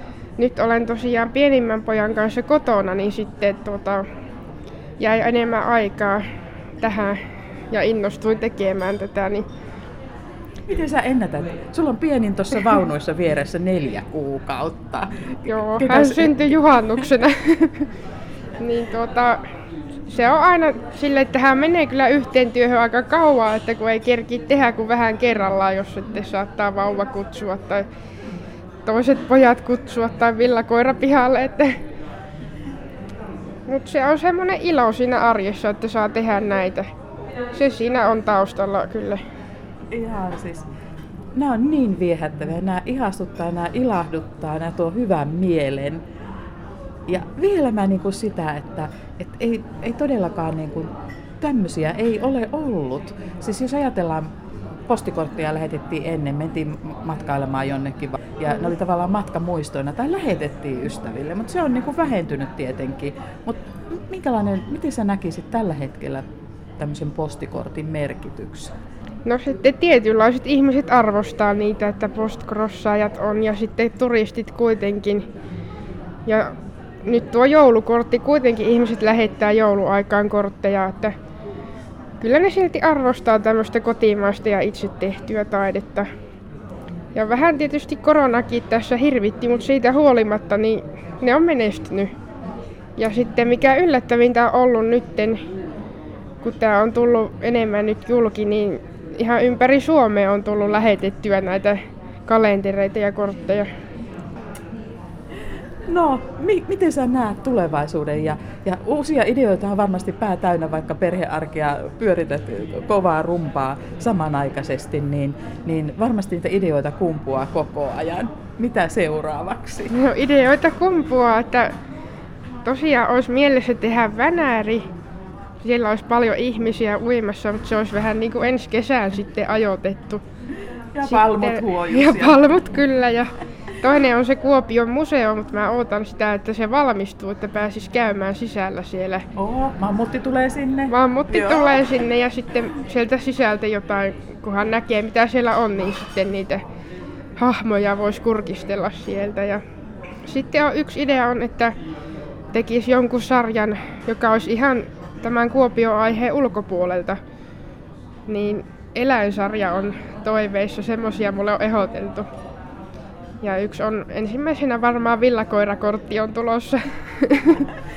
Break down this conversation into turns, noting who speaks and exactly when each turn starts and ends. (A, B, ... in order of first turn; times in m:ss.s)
0:00.4-0:04.0 A
0:05.0-0:06.2 A
0:06.8-0:07.2 A
0:07.7-0:09.4 A
0:10.7-0:17.1 B
0:15.5-0:17.9 A
0:18.6-0:19.4 A
0:20.1-0:27.8 A
0:28.8-0:31.7 A
0:33.7-0:36.9 A
0:37.5-0:39.2 A
0:39.9-0:40.7 B
0:41.3-0:46.0 B
0:47.1-0:50.9 B
0:51.4-0:54.3 B
0:54.9-1:06.2 B
1:06.8-1:08.7 B
1:09.2-1:15.2 A
1:16.2-1:16.5 A
1:17.0-1:21.1 A
1:22.2-1:26.1 A
1:27.1-1:32.1 A
1:33.0-1:35.4 A
1:36.4-1:43.7 A
1:45.9-1:59.9 B
1:59.9-2:01.7 A
2:02.6-2:04.9 A
2:05.6-2:10.2 A
2:10.9-2:12.4 B
2:11.0-2:19.2 A
2:19.4-2:21.8 B
2:20.9-2:26.6 A
2:27.4-2:29.6 A
2:30.2-2:31.7 A
2:32.5-2:37.2 A
2:38.3-2:42.3 A
2:43.4-2:47.7 A